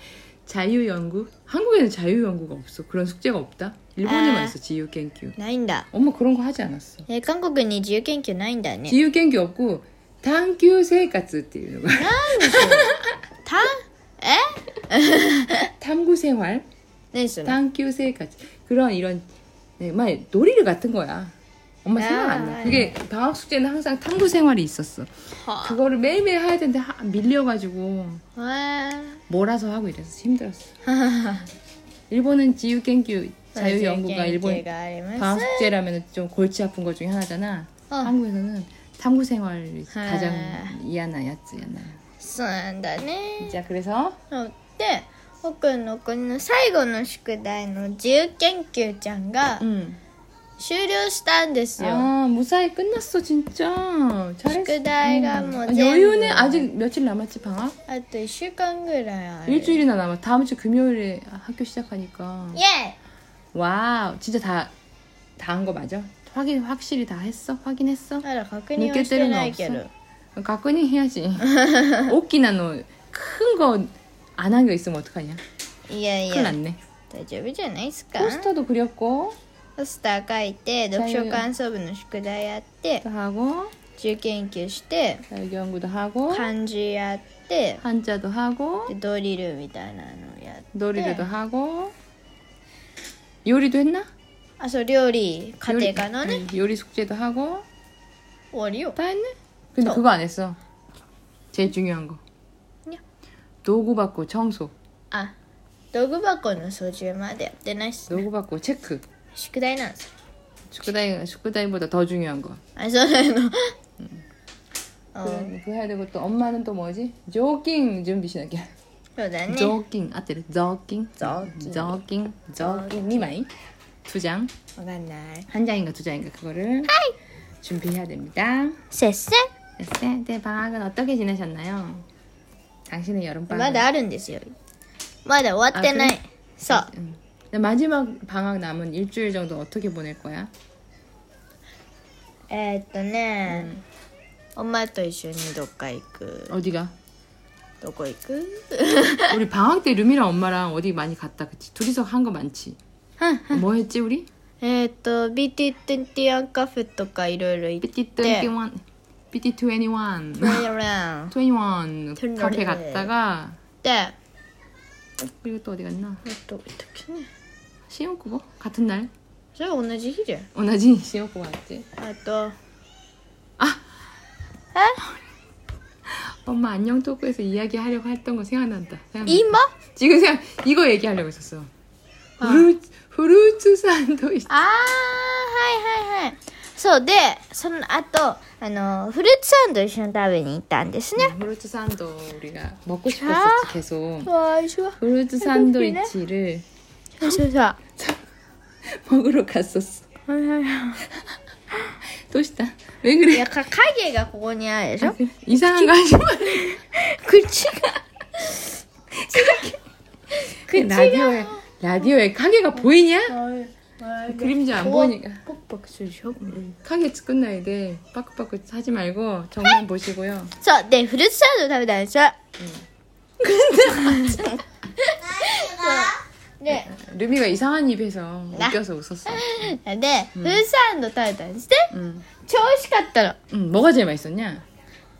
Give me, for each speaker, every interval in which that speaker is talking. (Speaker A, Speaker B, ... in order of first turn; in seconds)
Speaker A: 0.5-5.3, 5.9-7.1, 8.9-13.1, 15.8-16.6, 17.4-19.2, 19.8-28.2, 29.3-30.7, 32.1-34.6, 35.2-42.0, 43.4-44.2, 49.6-50.0, 51.8-57.8, 59.5-62.6, 63.5-64.7, 65.4-68.2, 68.8-69.8, 70.3-75.4, 76.3-76.8, 78.2-79.4, 80.9-81.5, 83.0-83.7, 85.3-86.5, 87.8-88.9, 90.7-91.9, 93.4-94.1, 95.7-97.6, 99.0-100.6, 101.5-102.2, 103.6-104.7, 108.1-109.0, 110.7-112.6, 114.0-114.2, 115.2-118.7, 119.5-123.5, 124.0-124.5, 125.5-126.9, 127.6-128.8, 129.8-132.0, 132.9-133.9, 135.7-136.2, 136.7-140.5, 143.5-143.8, 146.5-146.9, 149.3-152.8, 153.5-154.3, 157.8-160.7, 161.3-163.6, 165.2-166.2, 167.9-169.1, 170.5-171.9, 176.1-181.7, 182.4-184.5, 191.2-194.3, 195.0-196.6, 199.0-200.1, 202.3-203.5, 205.0-206.8, 209.2-209.8, 210.7-213.3, 214.3-215.4, 216.3-220.5, 222.6-222.8, 226.7-229.7, 230.3-230.6, 231.9-232.3, 233.5-234.6
Speaker B: 4.0-4.5, 5.4-5.9, 7.1-9.0, 11.9-15.7, 17.1-17.6, 22.0-22.9, 25.4-25.8, 28.4-29.2, 30.8-31.5, 33.5-35.7, 39.9-40.8, 42.2-43.6, 44.3-49.6, 50.6-52.1, 54.5-56.7, 57.9-59.8, 62.5-63.0, 68.2-69.9, 71.5-72.1, 75.9-76.5, 77.1-78.5, 79.8-83.0, 84.0-85.2, 86.3-87.8, 88.9-91.3, 94.6-96.4, 98.5-99.0, 105.9-108.2, 109.3-110.1, 112.8-113.7, 115.1-115.5, 119.2-119.8, 121.2-122.0, 122.6-123.3, 124.8-125.5, 128.9-129.5, 133.5-134.5, 135.2-136.9, 142.5-143.7, 144.6-146.5, 147.8-149.4, 153.2-153.6, 154.6-158.5, 160.4-161.3, 162.2-163.1, 163.8-164.1, 166.2-167.3, 169.5-170.5, 172.0-172.6, 174.7-175.0, 179.2-179.7, 182.4-182.7, 184.5-191.3, 193.1-193.7, 194.2-196.1, 197.2-197.8, 200.3-201.1, 203.3-205.9, 206.6-208.7, 209.3-209.7, 210.3-211.6, 212.8-216.6, 220.6-222.3, 223.4-226.9, 228.5-231.9, 232.4-233.4